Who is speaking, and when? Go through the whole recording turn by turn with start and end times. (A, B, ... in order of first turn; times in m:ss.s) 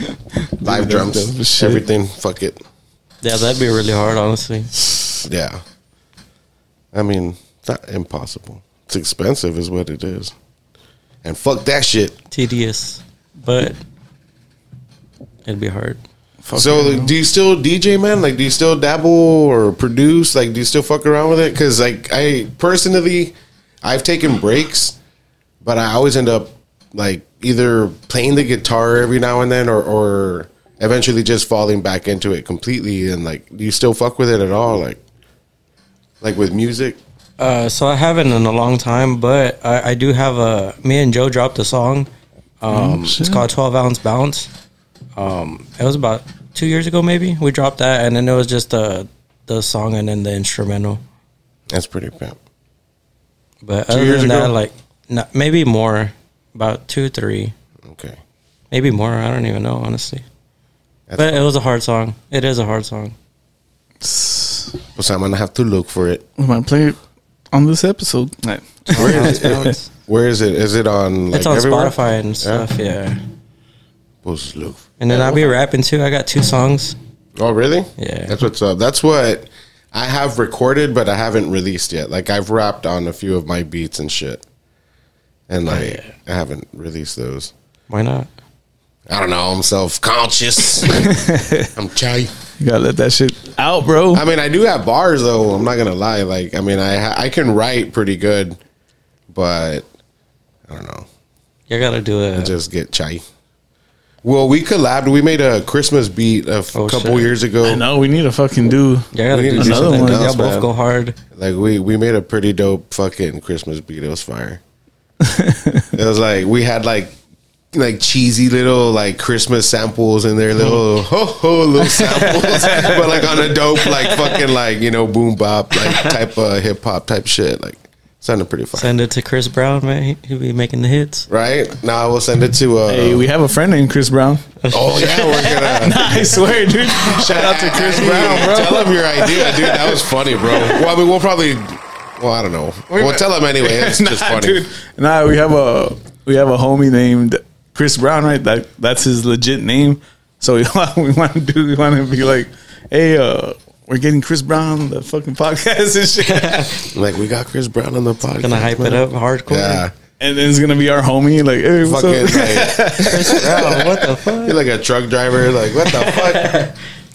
0:00.4-0:01.8 A
0:00.6-0:02.6 B
0:03.2-0:04.7 C
0:04.9-0:05.6 B
0:06.9-0:10.3 B
0:11.2-0:12.2 B
0:12.3-0:13.8 C
0:15.4-0:16.0 C
0:16.4-0:17.1 A
0:16.5-0:23.3 B
0:23.8-0:25.0 B
0:25.6-0:35.0 B
0:36.2-0:37.0 B
0:37.4-0:42.1 C
0:42.6-0:44.5 C
0:42.7-0:43.4 A
0:45.2-0:51.0 C
0:51.7-0:52.4 B
0:53.6-0:57.5 C
0:53.9-0:54.5 A
0:57.8-0:58.2 B
0:58.7-1:00.2 C
1:01.1-1:01.4 B
1:01.2-1:03.1 C
1:04.0-1:04.8 A
1:05.0-1:06.2 B
1:06.4-1:07.0 A
1:07.5-1:09.7 A
1:08.9-1:09.8 C
1:08.9-1:12.6 B
1:11.3-1:13.2 C
1:14.2-1:15.5 B
1:15.0-1:16.9 C
1:17.4-1:24.4 B
1:18.0-1:18.4 C
1:25.5-1:27.5 B
1:25.7-1:26.1 C
1:27.9-1:28.3 C
1:29.1-1:32.3 B
1:31.0-1:31.7 A
1:32.6-1:34.2 A
1:34.1-1:38.6 B
1:39.3-1:39.8 B
1:40.7-1:41.0 B
1:41.7-1:42.5 C
1:42.4-1:43.2 B
1:44.2-1:47.8 B
1:46.7-1:47.3 C
1:47.6-1:50.2 A
1:49.1-1:51.2 C
1:49.3-1:50.7 B
1:51.3-1:54.6 B
1:55.2-1:55.9 A
1:55.9-1:57.1 B
1:57.7-2:08.9 B
2:02.2-2:03.0 C
2:02.6-2:03.0 A
2:03.8-2:04.4 C
2:05.8-2:06.2 C
2:08.8-2:11.3 C
2:11.3-2:13.2 B
2:12.9-2:14.4 A
2:14.6-2:15.9 C
2:14.7-2:16.1 B
2:15.7-2:20.7 A
2:16.9-2:24.6 B
2:22.9-2:23.2 C
2:23.6-2:36.7 A
2:36.3-2:36.8 C
2:36.9-2:39.9 B
2:38.4-2:39.8 C
2:40.2-2:43.8 A
2:41.8-2:46.7 B
2:43.0-2:44.6 C
2:45.8-2:46.7 C